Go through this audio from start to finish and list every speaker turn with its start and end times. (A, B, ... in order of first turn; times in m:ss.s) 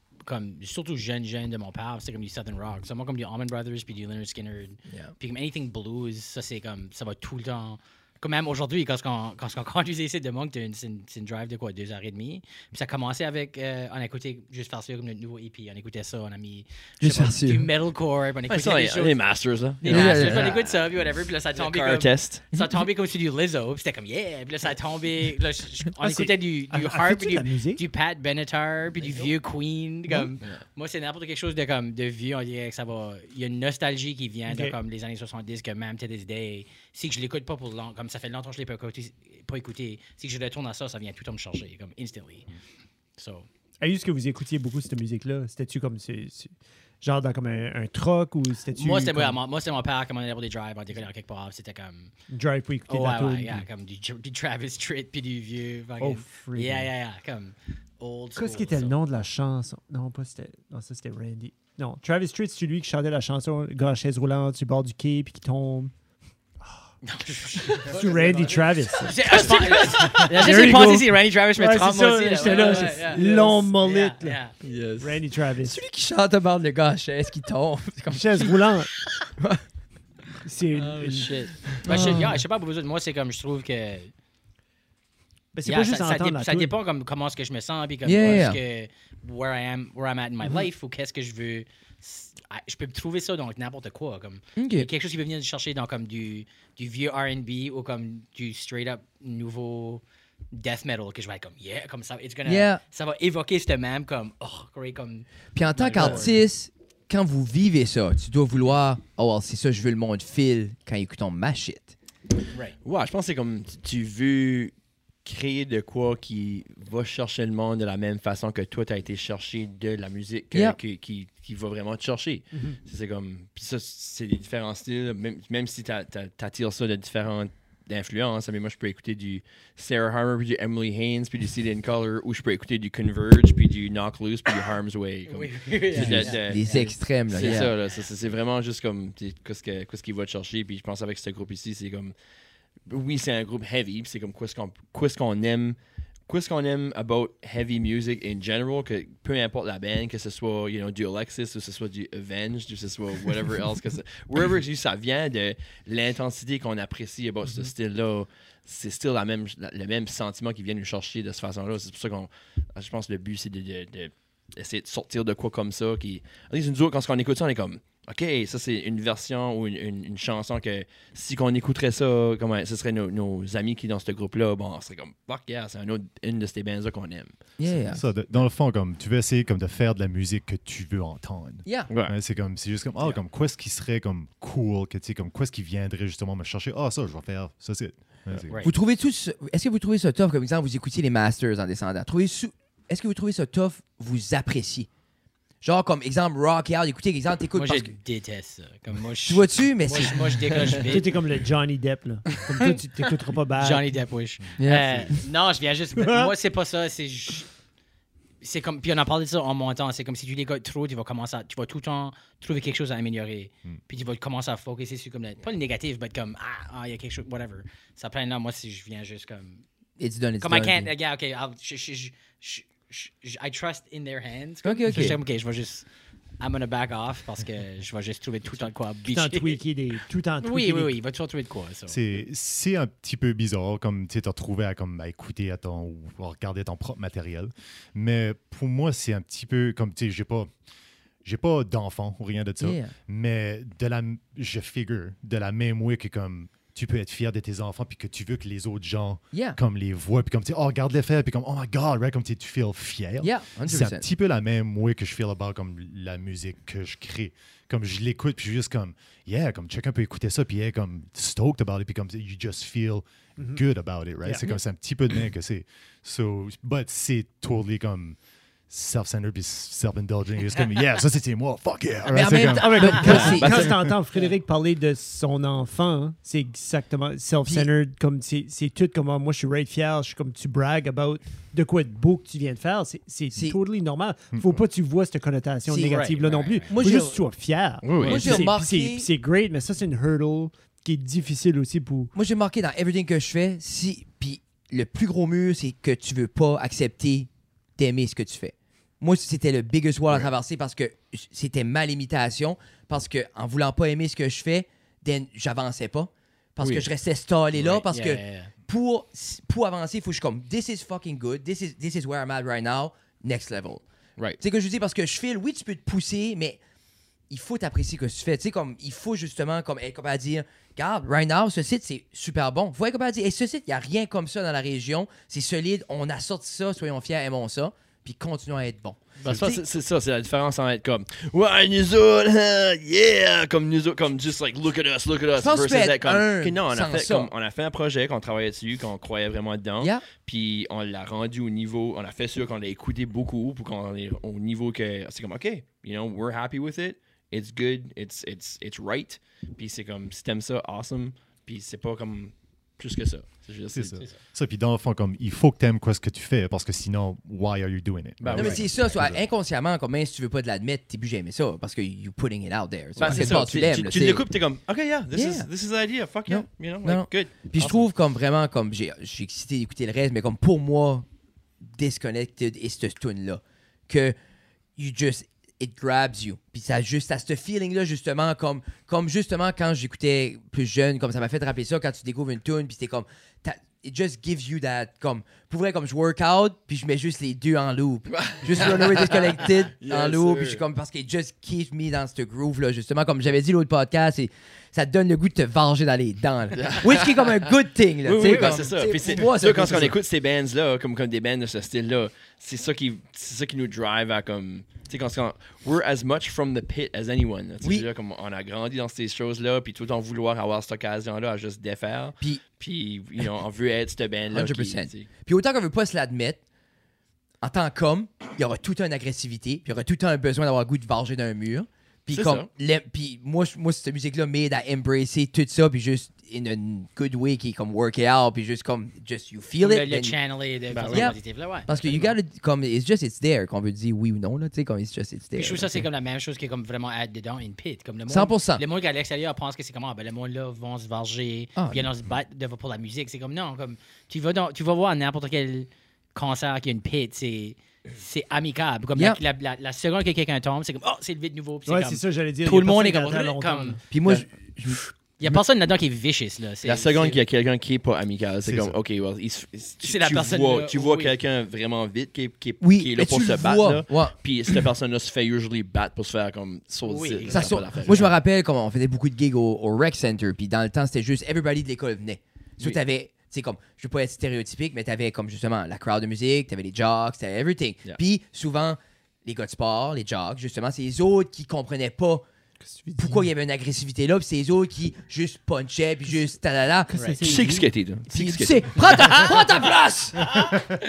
0:00.2-0:19.2 A
0:17.0-0:17.7 B
0:18.5-0:20.7 C
0:19.8-0:42.5 A
0:19.8-0:20.6 B
0:21.5-0:22.5 C
0:26.0-0:27.8 D
0:34.5-0:34.8 D
0:43.2-0:43.5 A
0:43.8-0:49.4 D
0:48.7-0:52.1 A
0:52.3-0:53.6 D
0:52.9-0:59.0 A
0:56.0-0:56.9 D
0:58.4-1:05.9 D
1:07.0-1:14.5 A
1:07.6-1:14.4 D
1:14.6-1:15.2 C
1:15.0-1:15.8 D
1:15.6-1:18.7 B
1:18.1-1:18.9 D
1:20.4-1:21.3 D
1:20.8-1:24.1 A
1:21.8-1:22.4 B
1:25.5-1:26.7 D
1:25.6-1:46.4 A
1:28.0-1:28.6 B
1:34.6-1:34.9 B
1:42.4-1:42.8 B
1:45.5-1:51.9 B
1:52.8-1:54.7 C
1:55.2-2:22.1 C
2:00.5-2:00.8 B
2:02.5-2:02.8 D
2:15.3-2:16.9 A
2:16.0-2:17.7 B
2:22.8-2:57.3 C
2:57.6-2:58.0 B
2:57.9-3:08.6 E
3:01.6-3:01.9 B
3:01.9-3:02.1 C
3:08.5-3:08.7 A
3:08.6-3:14.9 B
3:15.6-3:17.9 B
3:17.5-3:21.2 A
3:19.2-3:20.3 B
3:20.5-3:20.9 C
3:20.8-3:23.8 D
3:22.5-3:27.5 A
3:24.6-3:25.2 B
3:26.0-3:26.3 D
3:28.4-3:39.6 A
3:40.0-3:40.9 B
3:40.4-3:45.8 A
3:44.6-3:45.2 B
3:46.4-3:49.6 A
3:49.1-3:50.9 D
3:50.4-3:52.0 A
3:51.9-4:00.5 E
4:01.2-4:28.2 E
4:02.6-4:02.9 B
4:09.3-4:09.6 B
4:13.2-4:14.0 B
4:23.4-4:23.6 D
4:28.7-4:33.9 E
4:32.1-4:33.8 B
4:32.4-4:52.1 D
4:33.3-4:33.7 C
4:45.7-4:46.7 A
4:46.7-4:47.2 B
4:47.8-4:48.4 C
4:48.0-4:49.1 B
4:52.1-5:13.8 B
5:06.6-5:06.9 C
5:07.6-5:08.5 A
5:14.4-5:16.6 B
5:17.3-5:29.6 B
5:29.2-5:54.0 C
5:35.4-5:37.3 B
5:39.8-5:40.1 B
5:53.7-5:59.2 E
5:58.2-5:58.7 C
5:58.3-6:04.3 B
6:03.0-6:07.9 C
6:05.1-6:05.5 B
6:06.3-6:11.0 B
6:11.6-6:14.2 B
6:14.8-6:40.0 B
6:28.1-6:30.6 C
6:36.6-6:37.3 C
6:38.0-6:55.1 C
6:47.6-6:47.9 B
6:54.3-6:56.4 B
6:57.4-7:10.1 B
7:02.1-7:02.5 C
7:09.6-7:11.7 A
7:10.7-7:11.2 C
7:10.9-7:15.8 B
7:11.8-7:12.1 C
7:15.3-7:33.8 A
7:18.1-7:18.6 B
7:21.6-7:21.9 B
7:31.7-7:33.8 D
7:32.4-7:33.2 B
7:33.9-7:35.4 B
7:34.0-7:34.8 C
7:35.2-7:37.2 A
7:36.6-7:48.1 C
7:38.4-7:38.8 E
7:39.8-7:41.1 A
7:42.6-7:44.2 B
7:46.8-7:48.0 A
7:47.3-8:02.2 B
8:02.7-8:03.3 D
8:03.0-8:06.9 B
8:06.9-8:07.7 D
8:06.9-8:07.2 A
8:07.2-8:09.3 C
8:08.1-8:10.5 B